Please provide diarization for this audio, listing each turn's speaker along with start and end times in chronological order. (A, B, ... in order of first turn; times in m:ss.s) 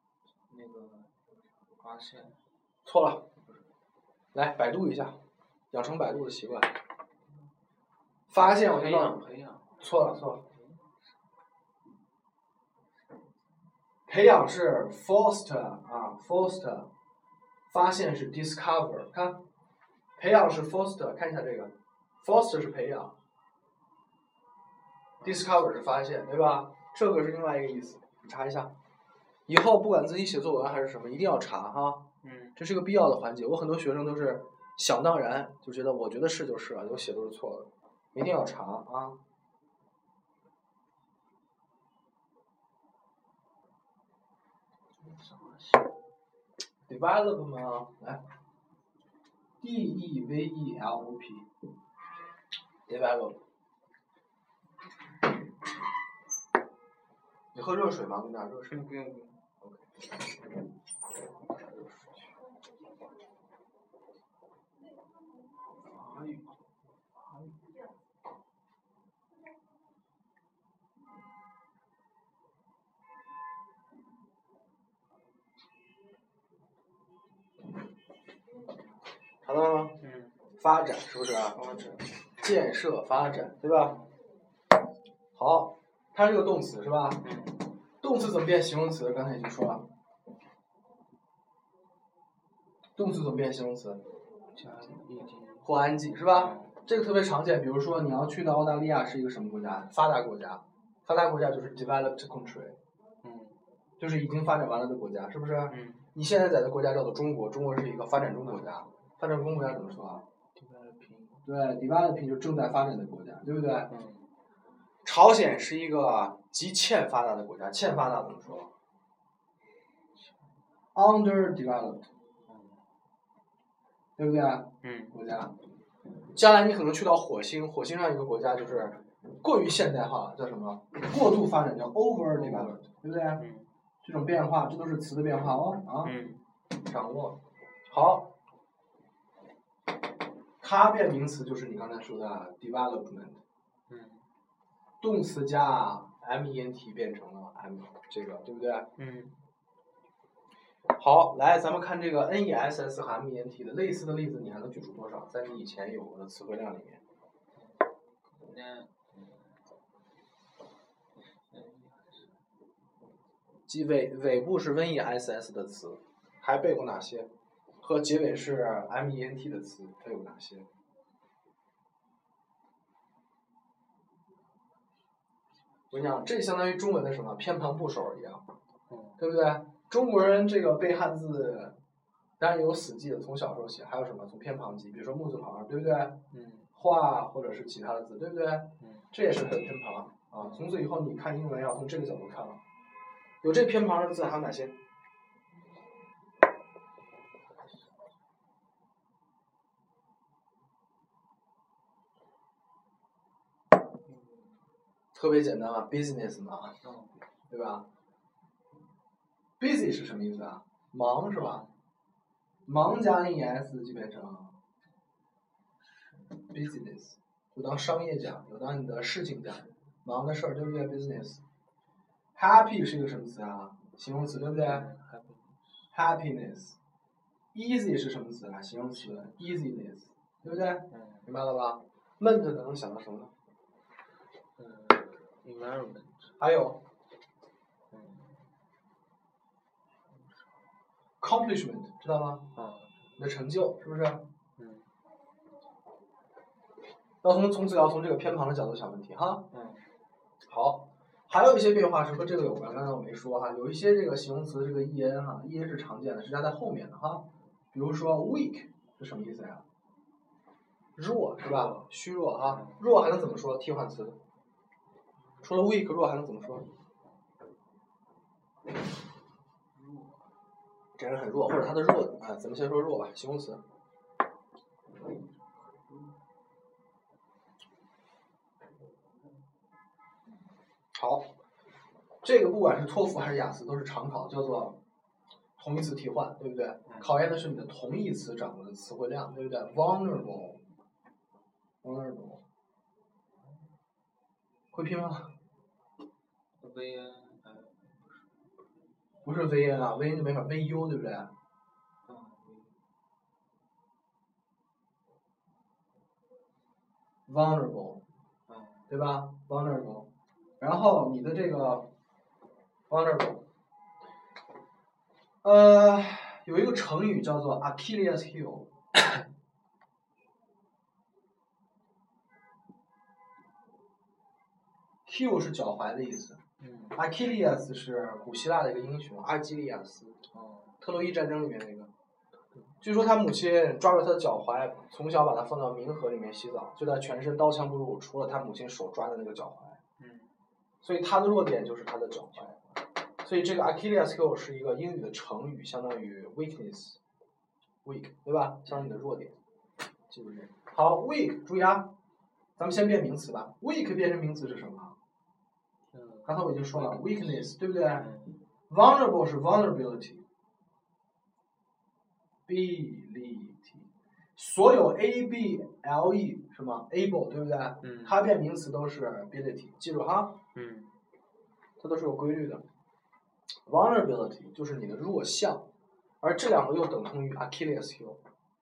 0:00.5-0:01.2 A
0:01.8-0:02.4 A
0:02.8-0:03.2 B
0:04.3-0:05.2 B
0:05.7-0:06.8 B
0:08.3-0:09.2 B
0:08.3-0:09.8 A
0:09.8-0:10.4 B
0:10.5-0:10.9 A
0:14.1-0:16.9 B
0:17.7-0:19.4 B
0:20.2-0:23.1 B
0:25.2-0:25.7 A
0:25.2-0:28.7 B
0:29.5-0:32.0 B
0:32.2-0:32.6 A
0:32.6-0:39.2 B
0:45.0-0:46.0 A
0:46.9-0:48.2 B
0:49.6-0:51.5 B
0:52.9-0:53.4 B
0:57.5-0:58.8 B
0:58.6-0:59.4 A
1:05.8-1:06.6 A
1:19.4-1:20.0 B
1:20.0-1:20.4 A
1:20.6-1:21.6 B
1:21.5-1:22.1 A
1:22.4-1:24.0 B
1:25.3-1:27.2 B
1:27.2-1:27.7 A
1:28.0-1:29.9 B
1:33.0-1:34.0 B
1:34.5-1:36.8 A
1:35.6-1:42.8 B
1:43.2-1:43.6 A
1:44.0-1:50.2 B
1:45.7-1:46.1 A
1:48.4-1:48.7 A
1:50.5-1:51.5 A
1:51.4-1:53.9 B
1:53.9-1:54.3 A
1:55.0-1:58.7 B
2:00.2-2:00.5 A
2:00.9-2:02.1 B
2:02.5-2:02.8 A
2:04.2-2:05.5 B
2:04.8-2:05.2 A
2:06.3-2:13.4 B
2:12.3-2:12.8 A
2:13.3-2:13.7 A
2:14.0-2:16.1 B
2:16.0-2:16.4 A
2:16.8-2:18.3 B
2:20.6-2:23.4 B
2:23.9-2:24.2 A
2:25.0-2:28.9 B
2:29.0-2:29.4 A
2:31.0-2:37.0 B
2:37.5-2:39.6 A
2:41.5-2:42.4 A
2:43.7-2:47.3 B
2:47.8-2:50.7 B
2:55.9-2:58.4 B
2:58.9-2:59.2 A
2:59.2-3:01.8 B
3:02.4-3:06.2 B
3:06.3-3:06.7 A
3:06.7-3:12.6 B
3:08.8-3:09.1 A
3:10.4-3:10.6 A
3:13.4-3:14.8 B
3:24.0-3:24.6 A
3:25.1-3:26.8 B
3:26.8-3:27.3 A
3:27.5-3:27.8 B
3:29.6-3:31.6 B
3:31.3-3:31.7 A
3:32.6-3:34.6 B
3:35.8-3:36.5 A
3:36.5-3:41.4 B
3:42.3-3:44.9 B
3:44.4-3:45.7 A
3:45.9-3:46.8 B
3:47.5-3:53.3 B
3:48.9-3:49.5 A
3:50.4-3:51.3 A
3:54.6-3:56.3 A
3:56.4-3:56.8 B
3:57.9-3:58.5 A
4:00.1-4:00.6 A
4:01.2-4:02.5 B
4:02.5-4:03.1 A
4:03.2-4:04.2 B
4:04.6-4:04.9 A
4:07.2-4:09.5 B
4:09.5-4:09.9 A
4:10.4-4:19.6 B
4:21.0-4:24.2 B
4:21.4-4:21.8 A
4:22.5-4:22.8 A
4:25.4-4:26.7 B
4:29.7-4:30.3 A
4:31.0-4:33.6 B
4:40.9-4:41.3 B
4:42.2-4:44.8 B
4:45.6-4:50.6 B
4:46.8-4:47.1 A
4:51.8-4:52.4 B
4:54.7-4:55.3 B
4:56.6-4:58.3 A
4:59.2-5:01.3 B
5:02.0-5:02.8 A
5:07.3-5:08.0 B
5:08.5-5:08.9 A
5:08.9-5:10.1 B
5:10.6-5:11.9 B
5:12.9-5:13.4 B
5:15.4-5:18.7 B
5:25.0-5:26.4 B
5:26.6-5:27.0 A
5:26.9-5:30.2 B
5:30.3-5:30.8 A
5:30.8-5:31.9 B
5:32.8-5:39.8 B
5:40.0-5:40.3 A
5:40.8-5:47.0 B
5:47.8-5:49.4 B
5:50.1-5:51.9 B
5:52.6-5:55.0 B
5:55.9-5:58.4 A
5:56.2-5:58.1 B
5:58.7-6:00.2 B
6:02.5-6:10.4 B
6:07.8-6:08.2 A
6:10.5-6:10.9 A
6:11.8-6:12.6 B
6:13.6-6:15.7 B
6:16.2-6:18.2 B